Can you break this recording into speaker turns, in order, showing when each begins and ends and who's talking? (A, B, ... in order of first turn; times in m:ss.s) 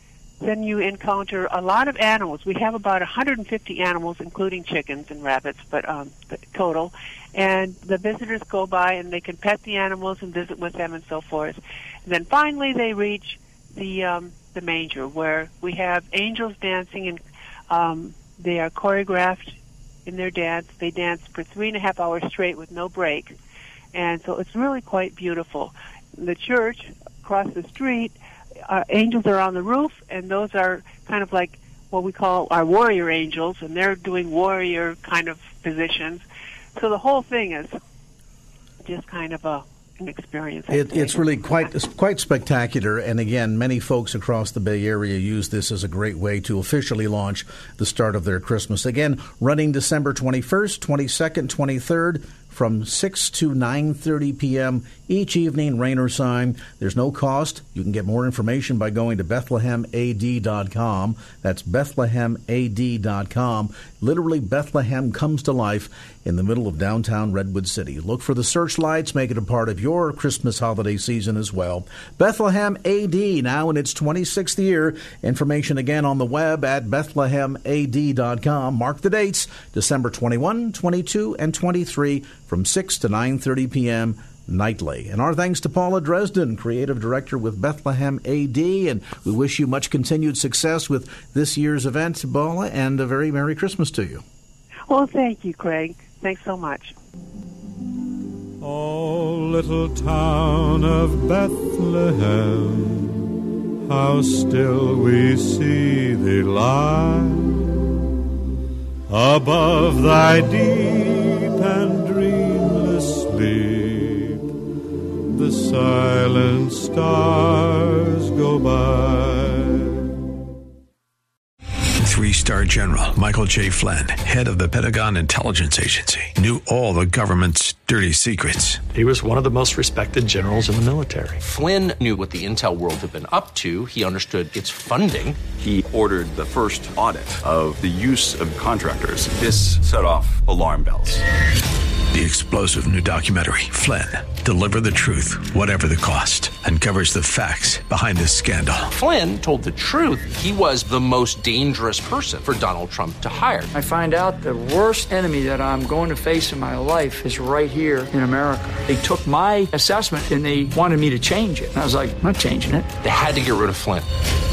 0:00.4-0:23.4 A
0:23.9-0:28.2 A
0:28.7-0:36.2 A
0:36.8-0:37.8 A
0:38.8-0:41.4 A
0:40.7-1:34.2 B
1:34.9-1:37.0 A
1:38.6-1:43.2 C
1:43.9-1:47.7 C
1:49.1-1:54.4 C
1:55.3-2:00.0 C
2:02.0-2:08.9 D
2:08.9-2:11.4 E
2:11.4-2:15.4 F
2:15.6-2:21.2 G
2:22.1-2:28.9 D
2:28.9-2:33.7 F
2:33.7-2:42.9 H
2:43.0-2:44.1 F